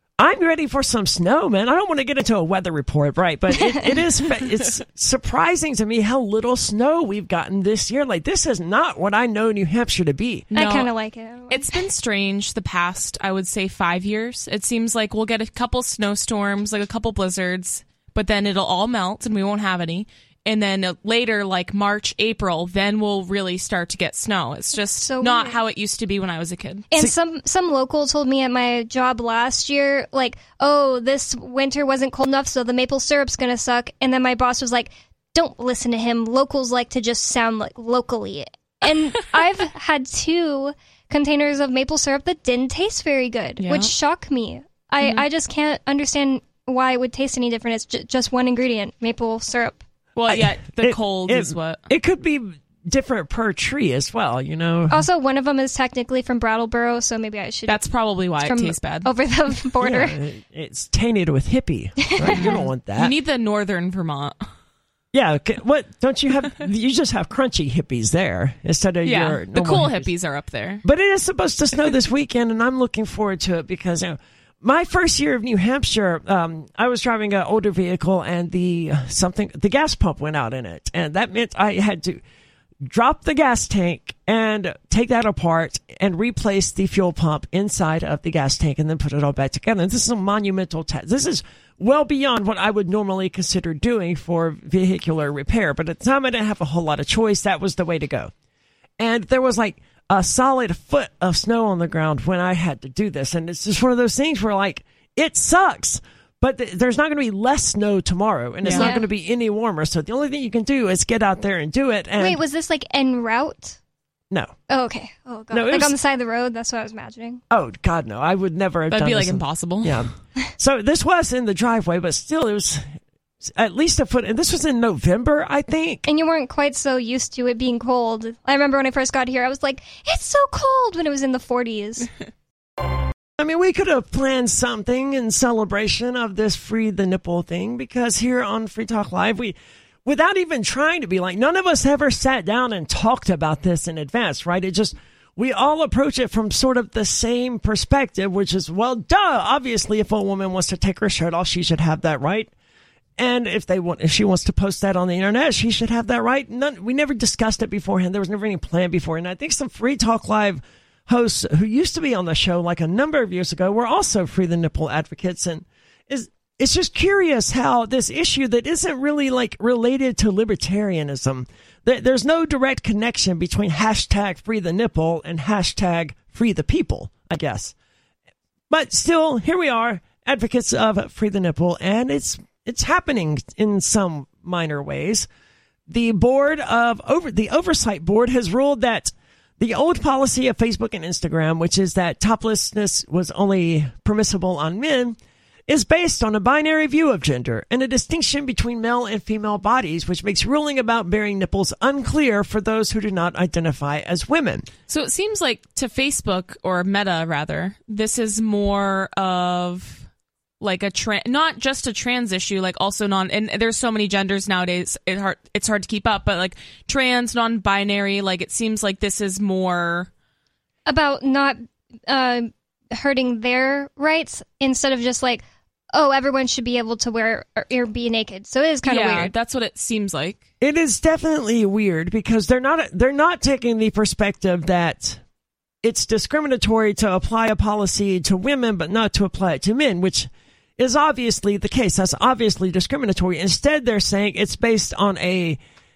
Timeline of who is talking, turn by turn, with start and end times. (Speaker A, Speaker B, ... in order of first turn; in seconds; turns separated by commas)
Speaker A: 0.2-10.5, Speaker B: 3.6-3.9, Speaker C: 10.5-10.9, Speaker B: 10.5-11.7, Speaker C: 11.5-26.9, Speaker B: 25.0-25.6, Speaker B: 26.9-49.8, Speaker C: 43.6-43.9, Speaker C: 50.1-51.8, Speaker A: 50.3-55.0, Speaker B: 54.9-57.8, Speaker C: 57.7-59.1, Speaker B: 58.4-60.2, Speaker A: 59.8-63.1, Speaker B: 62.2-62.5, Speaker C: 62.3-64.5, Speaker A: 65.1-70.1, Speaker C: 69.0-70.8, Speaker A: 70.8-82.2, Speaker A: 82.8-98.3, Speaker A: 99.0-112.4, Speaker C: 108.6-108.9, Speaker B: 108.7-109.0, Speaker B: 112.2-113.8, Speaker B: 114.7-117.4, Speaker A: 115.5-115.9, Speaker A: 117.5-126.0, Speaker C: 118.9-120.1, Speaker B: 126.0-132.1, Speaker A: 133.4-152.5, Speaker A: 153.2-177.7, Speaker A: 178.7-185.3, Speaker A: 185.9-204.7, Speaker C: 204.9-210.1, Speaker C: 210.6-220.1, Speaker B: 220.9-229.3, Speaker C: 228.8-230.4, Speaker A: 230.6-235.2, Speaker A: 235.8-245.6